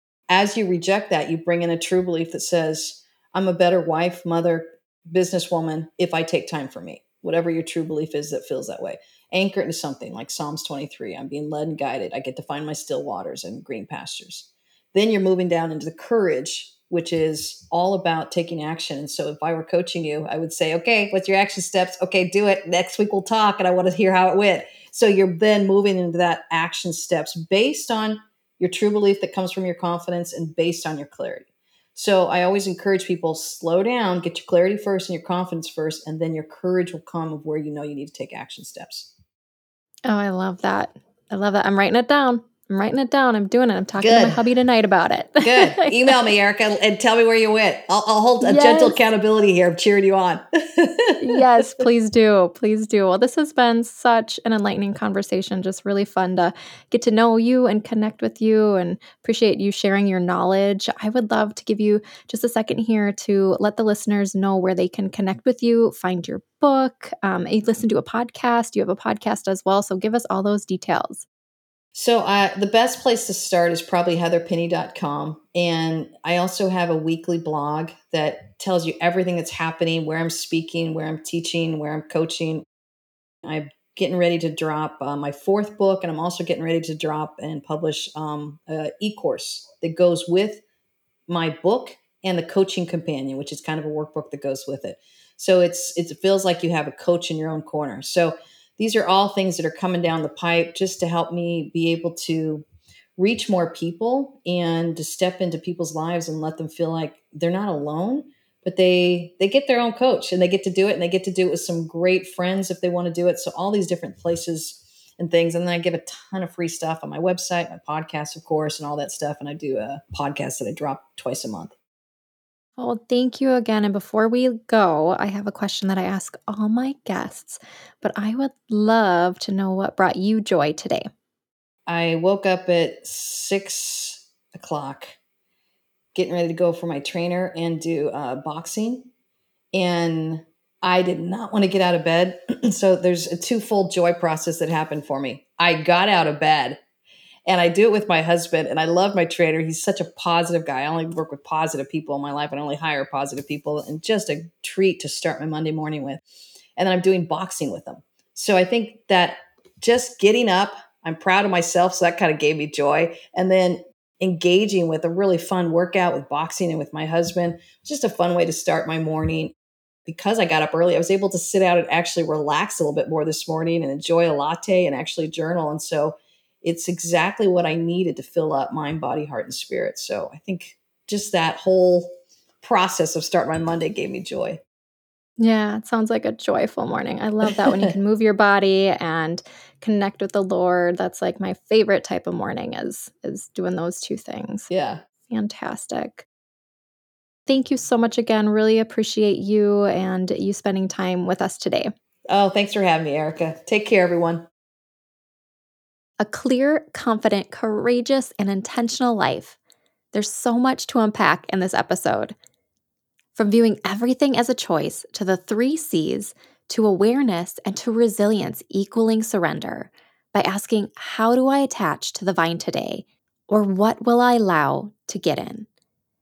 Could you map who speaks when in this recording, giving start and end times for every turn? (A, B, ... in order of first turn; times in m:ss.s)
0:00.3-0:39.1 A
0:40.1-0:46.2 B
0:44.0-0:44.4 A
0:45.4-0:51.8 A
0:48.4-0:49.0 B
0:51.2-1:11.3 B
1:11.9-1:22.6 A
1:23.4-1:30.6 A
1:31.3-1:42.6 A
1:43.2-2:01.8 A
2:02.8-2:11.1 B
2:11.9-2:15.2 A
2:16.1-2:19.1 A
2:19.7-2:26.8 A
2:27.5-2:36.2 A
2:36.8-2:49.5 A
2:50.1-3:04.6 A
3:05.4-3:14.7 B
3:07.5-3:08.0 A
3:14.7-3:15.0 A
3:15.3-3:16.3 B
3:17.5-3:21.9 B
3:22.3-3:24.5 A
3:26.2-3:29.6 B
3:30.1-3:32.4 B
3:33.4-3:45.7 B